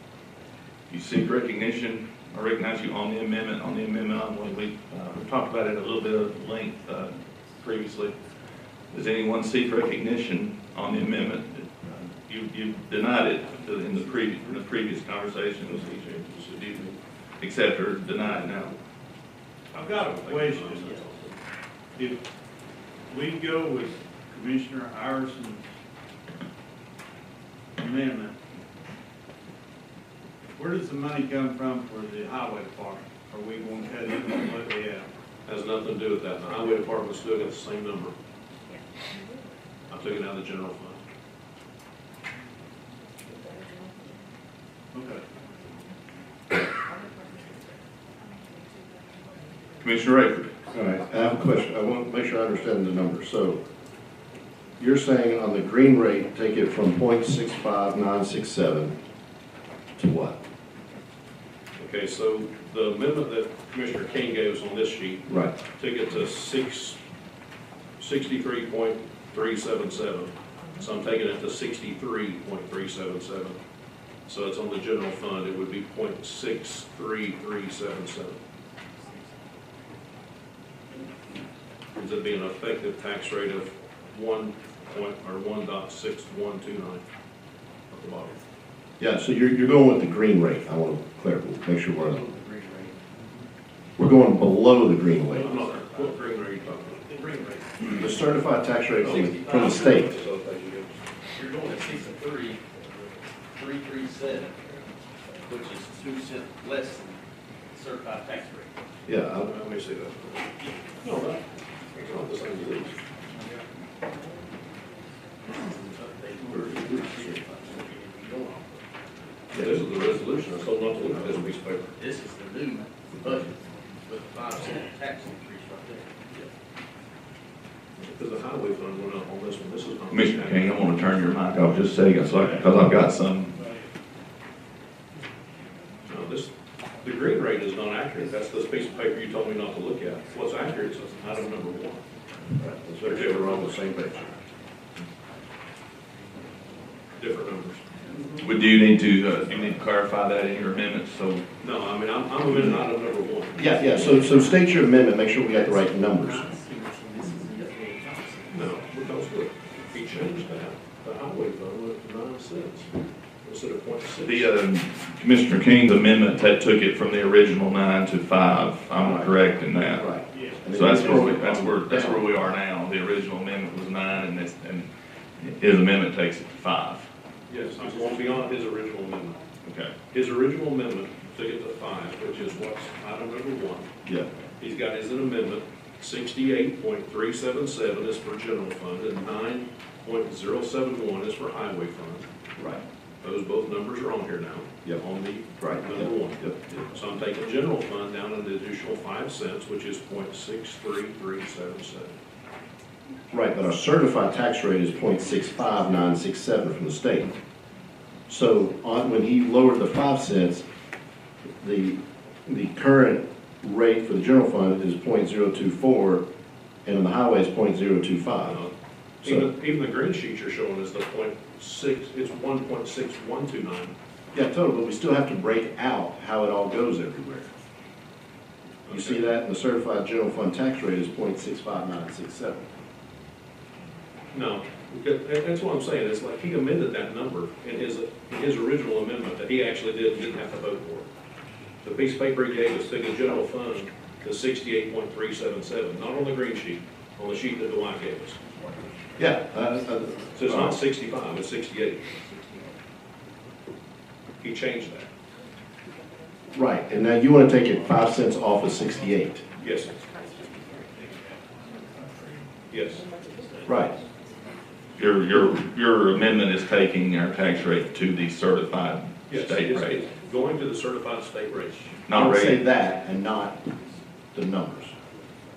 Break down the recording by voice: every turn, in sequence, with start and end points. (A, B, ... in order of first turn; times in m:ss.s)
0:00.9-0:08.1 A
0:08.9-0:16.0 A
0:15.7-0:17.0 B
0:17.4-0:18.8 A
0:19.7-0:21.0 C
0:20.0-0:21.4 B
0:23.1-0:25.7 C
0:27.8-0:28.4 C
0:30.6-0:35.0 C
0:35.4-0:38.1 B
0:39.9-0:41.0 B
0:44.9-0:45.2 C
0:49.8-0:50.5 A
0:50.7-0:53.6 D
0:54.8-0:59.0 D
1:00.0-1:00.4 D
1:01.8-1:07.0 B
1:05.3-1:05.5 D
1:08.0-1:13.6 B
1:14.3-1:18.4 B
1:21.9-1:27.0 B
1:27.9-1:28.4 B
1:29.0-1:32.2 D
1:32.0-1:33.0 E
1:34.0-1:35.5 D
1:35.3-1:37.6 B
1:35.5-1:36.0 E
1:37.9-1:40.1 D
1:39.0-1:40.1 E
1:39.4-1:41.0 B
1:41.3-1:42.6 E
1:43.5-1:44.6 E
1:45.4-1:47.2 E
1:47.7-1:48.7 E
1:49.0-1:49.5 D
1:49.4-1:53.0 B
1:55.5-1:58.8 E
1:56.6-1:57.3 D
1:59.5-2:01.9 B
2:02.0-2:06.1 E
2:08.0-2:10.9 B
2:10.1-2:13.5 A
2:16.0-2:22.0 B
2:22.6-2:24.3 D
2:23.0-2:23.7 B
2:27.2-2:27.8 B
2:28.4-2:31.4 A
2:31.6-2:34.3 B
2:33.6-2:36.5 D
2:38.5-2:44.5 B
2:44.2-2:50.0 A
2:49.0-2:52.4 D
2:50.7-2:57.1 A
2:57.5-2:59.4 B
2:59.6-2:59.9 A
3:00.1-3:03.9 B
3:04.6-3:12.3 B
3:12.6-3:12.8 D
3:13.2-3:22.1 B
3:15.6-3:16.6 D
3:23.3-3:27.3 D
3:28.3-3:30.6 D
3:31.6-3:36.2 D
3:36.8-3:38.6 D
3:38.4-3:43.9 B
3:44.3-3:47.5 D
3:48.8-3:49.2 B
3:48.9-3:52.6 D
3:54.3-4:01.1 B
4:01.8-4:08.4 B
4:09.2-4:10.8 D
4:10.3-4:12.0 B
4:14.4-4:15.1 B
4:16.5-4:19.4 D
4:19.6-4:20.1 B
4:22.7-4:23.0 B
4:23.6-4:23.9 D
4:25.0-4:30.0 A
4:29.3-4:32.0 B
4:32.1-4:32.6 A
4:32.1-4:33.6 D
4:34.3-4:34.9 D